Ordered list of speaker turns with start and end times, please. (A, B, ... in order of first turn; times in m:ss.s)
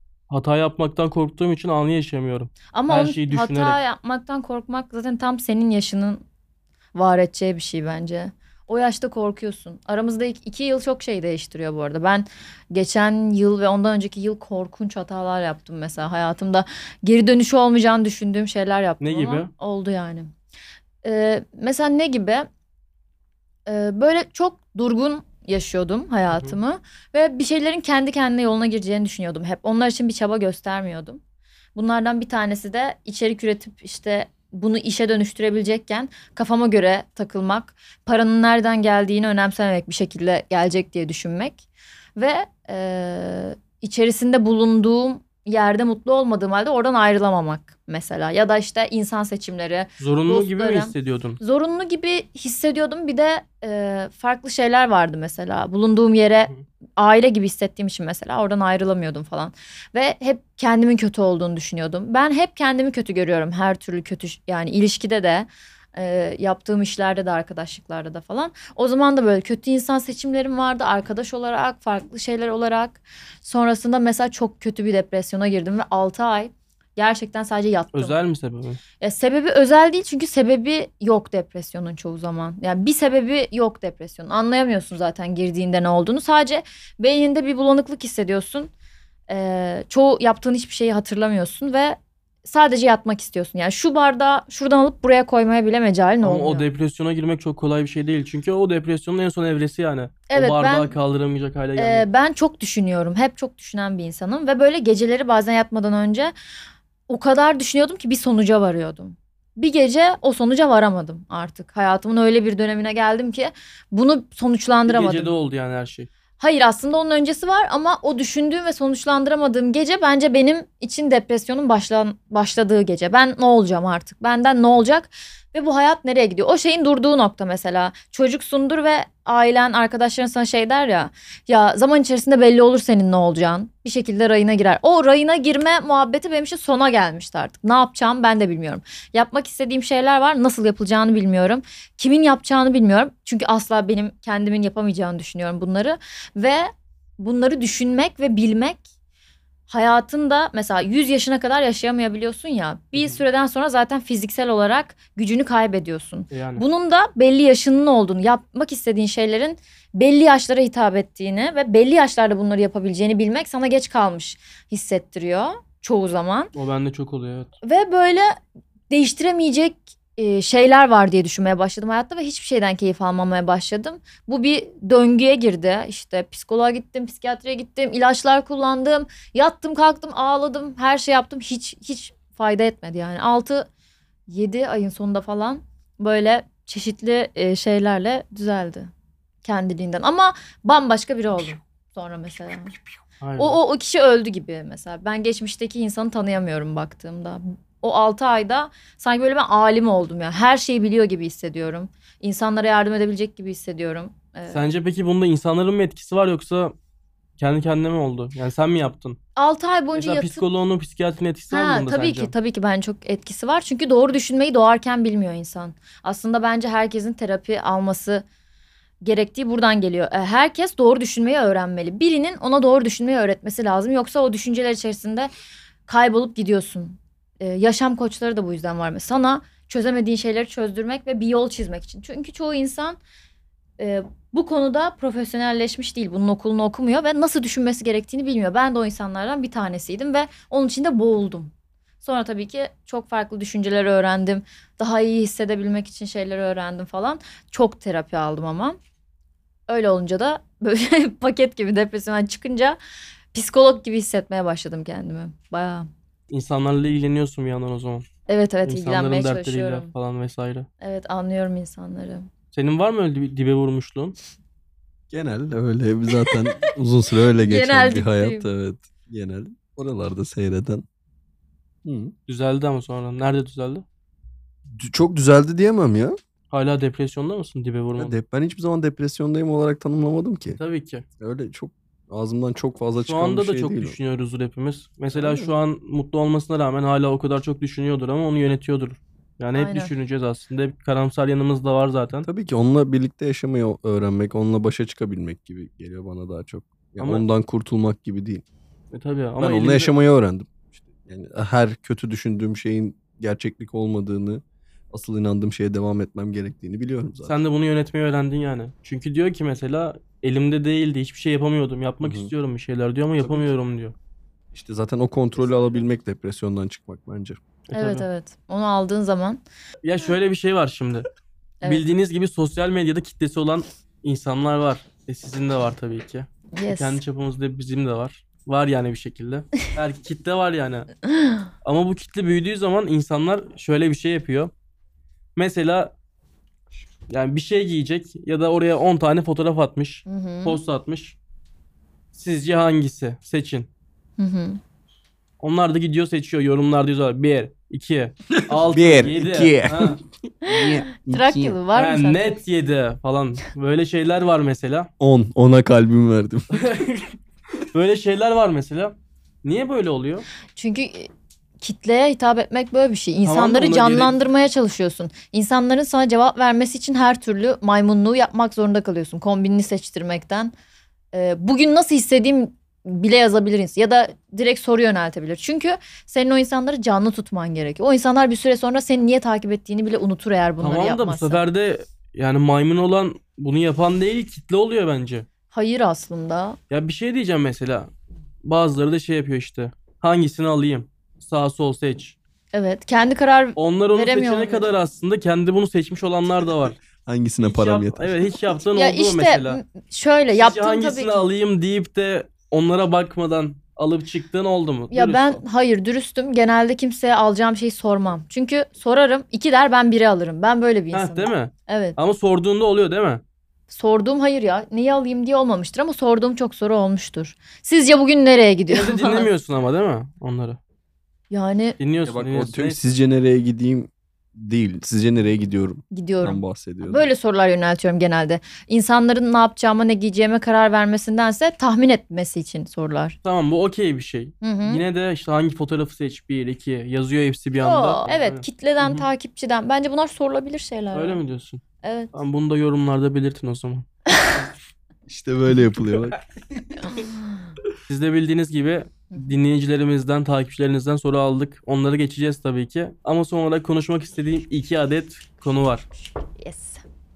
0:00.3-0:03.8 A
0:02.7-0:06.2 B
0:06.9-0:20.3 B
0:19.0-0:19.5 A
0:21.0-0:22.5 B
0:23.6-0:31.2 B
0:26.3-0:26.6 A
0:31.8-0:41.6 B
0:42.2-1:18.2 B
0:50.0-0:51.4 A
1:17.9-1:18.8 A
1:19.0-1:28.7 B
1:29.3-1:36.7 B
1:36.2-1:42.1 A
1:40.3-1:40.9 B
1:41.8-1:46.3 B
1:47.1-1:55.3 B
1:54.9-1:56.1 A
1:56.4-2:28.8 B
2:29.7-2:46.5 B
2:33.0-2:33.2 A
2:36.3-2:36.6 A
2:46.5-2:47.5 A
2:47.6-2:48.4 B
2:48.9-3:03.7 B
3:04.3-3:08.9 B
3:09.4-3:12.8 B
3:13.2-3:13.6 A
3:13.4-3:24.7 B
3:24.5-3:26.7 A
3:27.4-3:29.2 A
3:29.4-3:30.4 B
3:29.9-3:32.3 A
3:31.5-3:38.2 B
3:39.0-3:45.3 B
3:45.9-3:53.0 B
3:53.8-4:08.8 B
4:09.7-4:12.8 B
4:13.3-4:15.9 B
4:16.3-4:18.1 A
4:18.3-4:19.9 B
4:18.6-4:20.7 A
4:20.8-4:22.3 B
4:22.5-4:24.1 A
4:25.1-4:30.8 C
4:27.4-4:28.4 B
4:31.8-4:32.1 C
4:32.3-4:33.8 A
4:34.7-4:36.2 C
4:36.5-4:38.1 A
4:38.0-4:40.6 C
4:40.6-4:41.0 A
4:41.2-4:44.0 C
4:43.0-4:52.3 A
4:45.1-4:45.5 C
4:49.5-4:49.9 B
4:52.2-4:58.4 C
4:57.0-4:57.2 A
4:58.9-4:59.9 A
4:59.4-5:07.4 C
5:07.2-5:13.9 A
5:12.0-5:12.3 C
5:13.2-5:13.5 C
5:14.5-5:17.4 C
5:17.7-5:18.0 A
5:17.7-5:19.4 B
5:19.8-5:21.0 A
5:21.6-5:30.9 A
5:26.5-5:27.0 B
5:31.6-5:34.5 A
5:35.4-5:35.9 A
5:37.1-5:41.2 A
5:40.1-5:40.6 B
5:42.1-5:43.7 A
5:44.2-5:44.6 B
5:45.4-5:50.0 A
5:48.4-5:51.5 C
5:50.4-5:52.4 B
5:51.7-5:54.9 A
5:55.0-5:56.6 C
5:56.5-5:57.1 A
5:57.7-6:00.3 A
6:00.5-6:01.1 B
6:01.6-6:10.5 B
6:03.2-6:04.1 A
6:11.1-6:21.4 B
6:20.6-6:25.3 A
6:25.5-6:26.6 B
6:26.7-6:27.9 A
6:28.4-6:32.2 A
6:32.5-6:34.7 B
6:33.6-6:36.8 A
6:37.0-6:38.2 C
6:37.4-6:39.6 A
6:38.7-6:41.3 B
6:40.3-6:45.4 A
6:44.9-6:52.0 B
6:50.9-6:53.2 A
6:53.7-6:59.3 B
6:58.7-7:00.6 A
7:01.3-7:01.8 B
7:01.8-7:02.9 A
7:02.0-7:07.1 C
7:05.9-7:13.2 B
7:13.2-7:19.1 A
7:14.4-7:14.8 B
7:17.6-7:21.2 B
7:20.9-7:21.6 A
7:21.8-7:22.1 B
7:22.1-7:23.8 A
7:25.1-7:26.7 C
7:26.9-7:27.5 B
7:27.9-7:35.8 A
7:36.4-7:36.8 B